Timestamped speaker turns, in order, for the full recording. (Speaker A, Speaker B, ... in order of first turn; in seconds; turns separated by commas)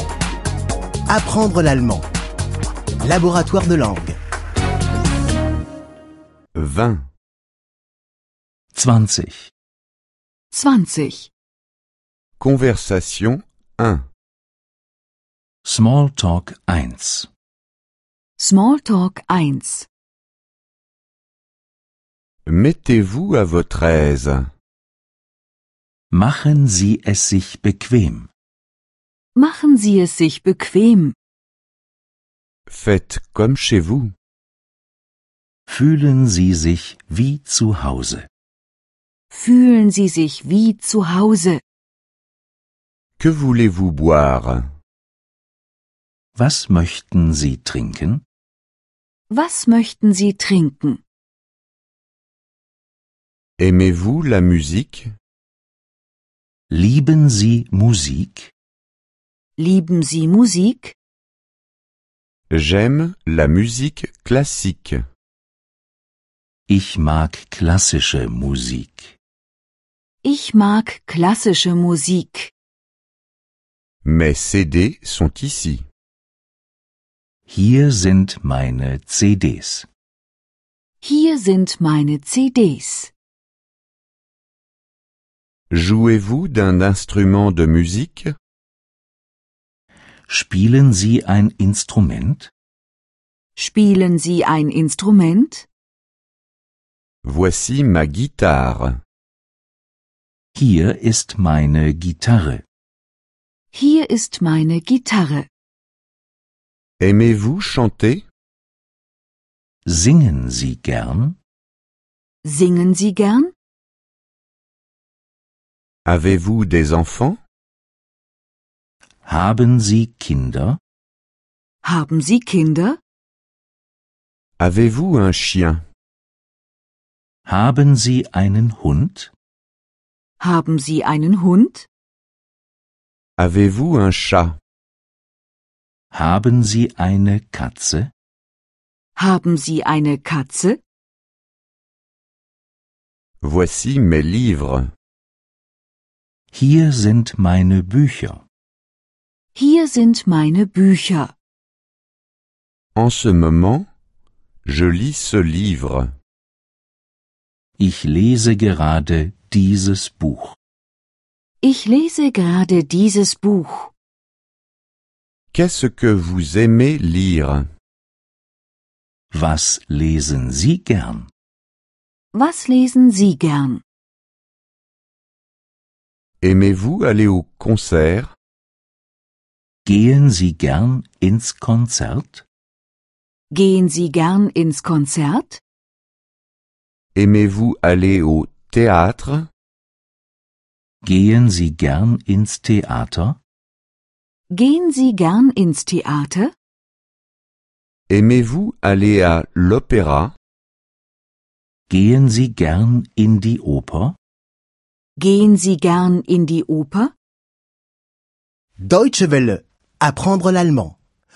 Speaker A: 1.1-2.0, Speaker A: 3.0-4.2, Speaker B: 6.5-7.0, Speaker C: 8.7-9.5, Speaker D: 10.5-11.3, Speaker B: 12.4-14.0, Speaker C: 15.7-17.3, Speaker D: 18.4-19.9, Speaker B: 22.5-24.5, Speaker C: 26.1-28.3, Speaker D: 29.4-31.1, Speaker B: 32.7-34.1, Speaker C: 35.7-38.3, Speaker D: 39.3-41.6, Speaker B: 43.2-44.7, Speaker C: 46.4-48.2, Speaker D: 49.3-51.0, Speaker B: 53.6-55.1, Speaker C: 56.7-58.5, Speaker D: 59.6-61.0, Speaker B: 62.5-65.0, Speaker C: 66.7-69.2, Speaker D: 70.2-72.5, Speaker B: 74.0-75.9, Speaker C: 77.5-79.9, Speaker D: 81.0-83.1, Speaker B: 85.7-88.3, Speaker C: 90.3-92.5, Speaker D: 93.6-95.7, Speaker B: 97.2-99.0, Speaker C: 100.5-102.6, Speaker D: 103.7-105.5, Speaker B: 107.0-108.2, Speaker C: 109.9-111.4, Speaker D: 112.4-113.5, Speaker B: 116.1-117.4, Speaker C: 119.2-120.8, Speaker D: 121.8-123.0, Speaker B: 124.6-125.8, Speaker C: 127.5-129.3, Speaker D: 130.4-131.9, Speaker B: 133.4-134.6, Speaker C: 136.1-138.1, Speaker D: 139.2-140.8, Speaker B: 143.4-144.9, Speaker C: 146.5-148.4, Speaker D: 149.6-151.3, Speaker B: 152.9-153.9, Speaker B: 154.7-156.1, Speaker C: 157.8-160.6, Speaker D: 161.6-163.9, Speaker B: 165.5-167.7, Speaker C: 169.3-171.3, Speaker D: 172.3-173.8, Speaker B: 176.4-178.3, Speaker C: 179.8-182.4, Speaker D: 183.5-185.6, Speaker B: 187.2-189.5, Speaker C: 191.0-193.4, Speaker D: 194.5-196.5, Speaker B: 198.1-200.3, Speaker C: 201.9-204.2, Speaker D: 205.2-207.1, Speaker A: 208.8-211.0